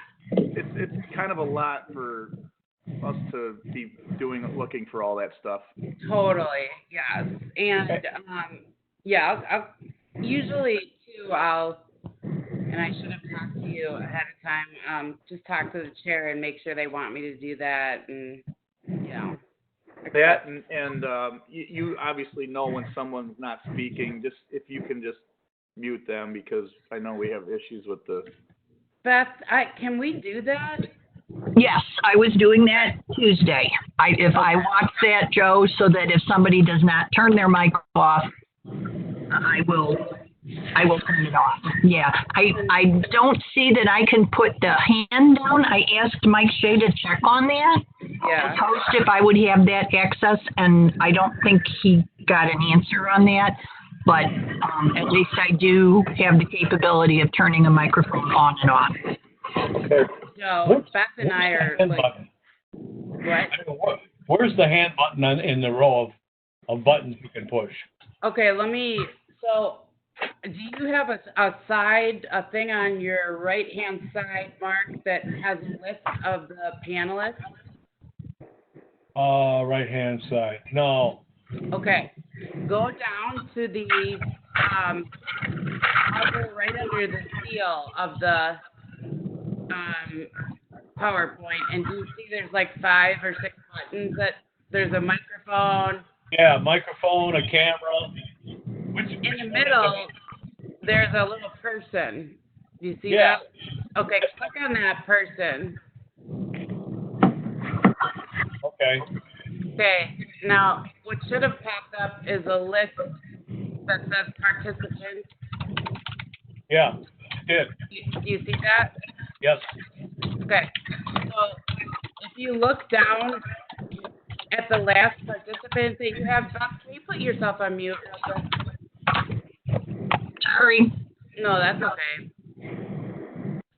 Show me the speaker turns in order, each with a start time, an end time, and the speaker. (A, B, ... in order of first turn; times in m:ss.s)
0:00.5-0:02.3 A
0:03.0-0:05.7 A
0:06.0-0:11.8 B
0:12.7-0:18.4 B
0:19.0-0:19.4 B
0:20.1-0:20.4 B
0:20.1-0:25.2 A
0:25.8-0:28.3 A
0:29.0-0:30.9 B
0:31.5-0:38.3 C
0:39.3-0:40.2 C
0:40.7-0:59.1 C
0:48.2-0:48.6 B
0:59.8-1:00.1 D
1:00.3-1:02.1 B
1:00.6-1:02.2 D
1:03.2-1:03.5 B
1:03.5-1:06.1 D
1:06.7-1:07.8 D
1:08.2-1:09.8 B
1:10.4-1:17.4 B
1:19.2-1:21.2 D
1:21.7-1:22.1 B
1:22.6-1:25.1 B
1:26.1-1:28.6 B
1:29.7-1:30.3 B
1:31.0-1:36.0 B
1:36.3-1:38.1 D
1:38.9-1:40.0 D
1:39.2-1:40.1 B
1:40.8-1:43.4 B
1:43.1-1:43.4 D
1:44.0-1:45.8 B
1:48.6-1:49.0 D
1:49.8-1:53.2 B
1:53.9-1:55.3 B
1:56.7-1:56.9 D
1:57.4-1:57.7 D
1:57.9-1:58.9 B
2:00.4-2:01.6 B
2:02.2-2:03.4 B
2:04.5-2:08.5 B
2:10.4-2:10.9 C
2:11.4-2:12.2 B